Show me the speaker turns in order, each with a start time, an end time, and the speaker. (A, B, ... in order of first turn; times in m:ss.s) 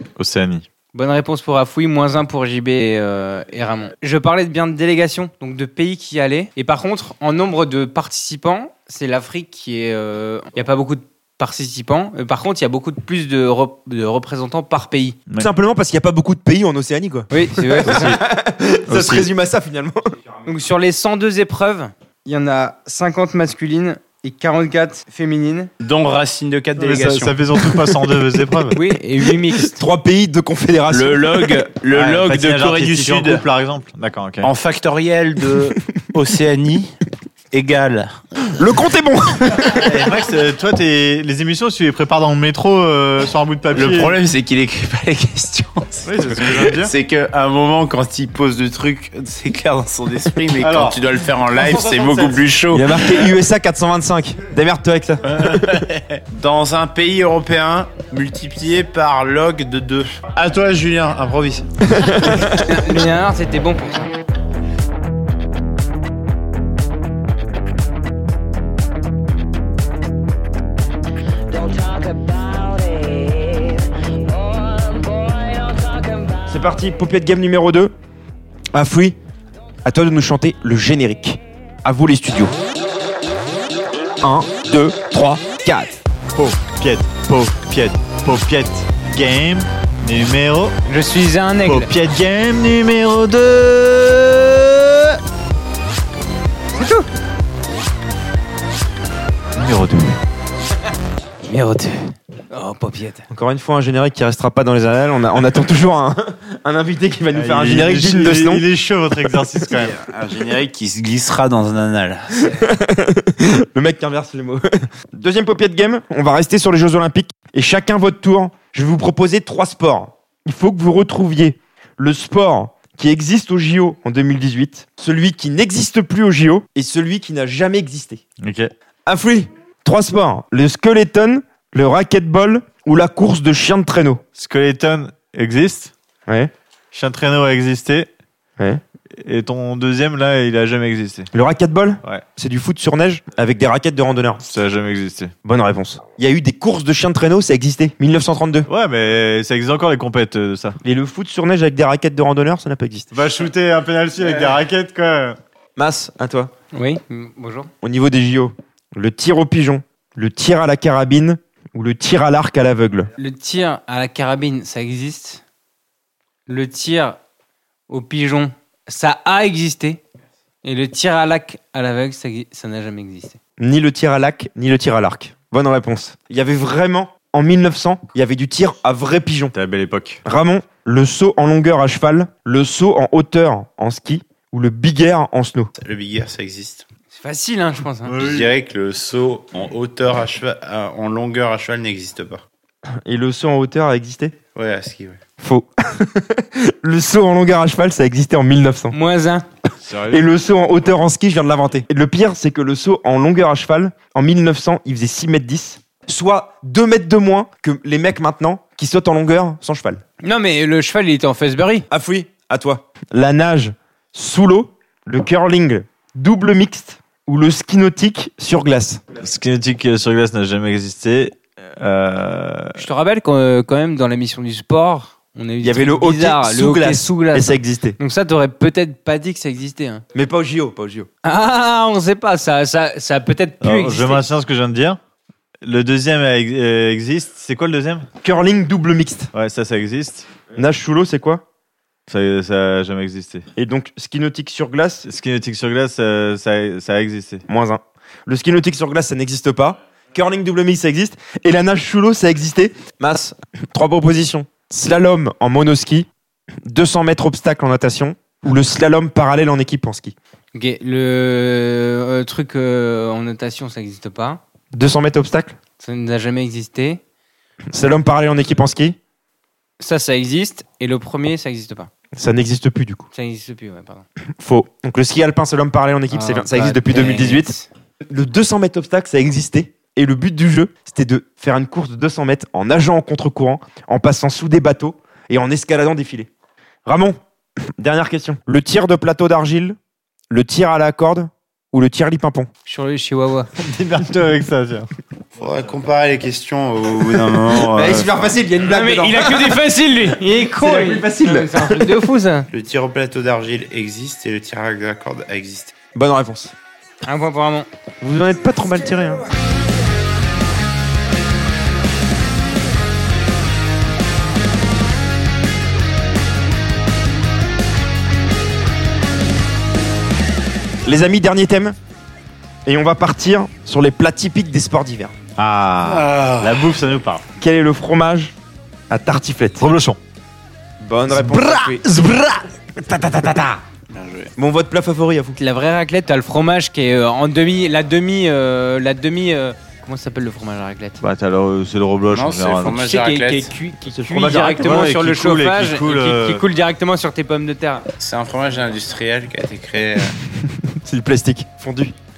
0:00.2-0:00.6 A
0:00.9-0:15.2 B
0:15.4-0:20.0 C
0:17.3-0:18.2 B
0:18.9-0:19.3 A
0:20.4-0:25.7 B
0:25.8-0:27.6 D
0:26.8-0:28.8 A
0:28.7-0:29.8 B
0:29.7-0:31.6 C
0:30.9-0:33.4 D
0:31.9-0:34.5 A
0:34.4-0:36.9 D
0:37.5-0:38.1 D
0:38.6-0:39.9 C
0:39.8-0:44.2 A
0:43.7-0:53.3 D
0:46.0-0:46.9 A
0:50.6-0:52.5 A
0:52.7-0:55.4 C
0:55.3-1:01.6 D
1:01.8-1:02.6 C
1:02.4-1:04.1 B
1:16.5-1:17.9 C
1:18.7-1:19.2 C
1:19.8-1:22.5 C
1:24.2-1:26.0 C
1:26.3-1:30.7 A
1:30.9-1:31.9 B
1:31.6-1:35.2 A
1:36.7-1:37.0 B
1:39.5-1:40.2 A
1:41.5-1:43.2 B
1:43.3-1:48.6 C
1:47.3-1:50.0 A
1:49.8-1:52.5 D
1:52.5-2:08.2 C
2:08.4-2:08.7 A
2:09.0-2:14.2 C
2:14.4-2:15.9 A
2:16.9-2:18.1 A
2:19.1-2:21.3 A
2:21.3-2:24.4 C
2:24.4-2:25.3 A
2:25.4-2:28.7 C
2:28.7-2:30.8 A
2:30.8-2:33.1 C
2:33.1-2:35.4 A
2:35.8-2:36.5 C
2:36.7-2:37.7 B
2:37.8-2:43.1 C
2:43.2-2:45.4 B
2:46.5-2:47.2 B
2:47.9-2:50.0 B
2:50.6-2:53.4 B
2:53.6-2:59.5 C
2:59.5-3:00.2 A
3:00.2-3:05.7 C
3:05.8-3:06.8 D
3:07.1-3:08.1 B
3:08.0-3:08.5 A
3:08.2-3:12.4 D
3:13.0-3:14.3 C
3:14.5-3:15.2 D
3:15.4-3:18.9 C
3:18.9-3:19.4 B
3:19.9-3:20.2 D
3:20.1-3:30.0 C
3:30.2-3:31.8 B
3:31.9-3:39.0 C
3:39.2-3:42.8 A
3:42.8-3:50.0 B
3:45.6-3:48.0 C
3:50.1-3:51.1 C
3:51.2-3:54.2 B
3:53.6-3:55.0 A
3:55.6-3:58.1 A
3:58.2-3:59.3 C
3:59.3-4:00.3 A
4:00.5-4:01.4 C
4:02.1-4:03.5 A
4:03.6-4:05.0 C
4:05.0-4:07.4 A
4:07.5-4:16.1 C
4:16.6-4:20.1 C
4:20.5-4:24.4 B
4:24.7-4:25.5 C
4:25.8-4:27.0 B
4:27.7-4:29.0 C
4:29.8-4:31.9 B
4:32.1-4:33.1 C
4:33.1-4:34.0 B
4:34.4-4:37.5 C
4:36.1-4:37.7 B
4:38.1-4:46.3 C
4:46.8-4:47.2 C
4:47.8-4:49.8 C
4:50.3-4:52.5 C
4:52.6-4:53.5 B
4:53.6-4:54.9 A
4:55.4-4:58.1 D
4:57.5-4:59.6 C
4:58.6-5:02.5 B
5:00.5-5:01.8 C
5:02.5-5:05.7 D
5:05.9-5:06.5 C
5:07.0-5:07.7 B
5:08.0-5:09.2 C
5:20.8-5:21.8 C
5:22.6-5:25.1 C
5:25.4-5:27.2 A
5:25.8-5:26.8 D
5:27.4-5:28.3 C
5:28.9-5:29.6 C
5:29.6-5:30.0 A
5:30.8-5:33.6 C
5:31.4-5:31.8 B
5:33.9-5:34.3 D
5:34.4-5:35.4 C
5:35.4-5:41.0 B
5:41.0-5:42.9 A
5:42.1-5:43.5 D
5:42.7-5:47.8 B
5:44.0-5:44.6 C
5:44.1-5:46.4 A
5:48.0-5:50.1 D
5:50.5-5:51.9 C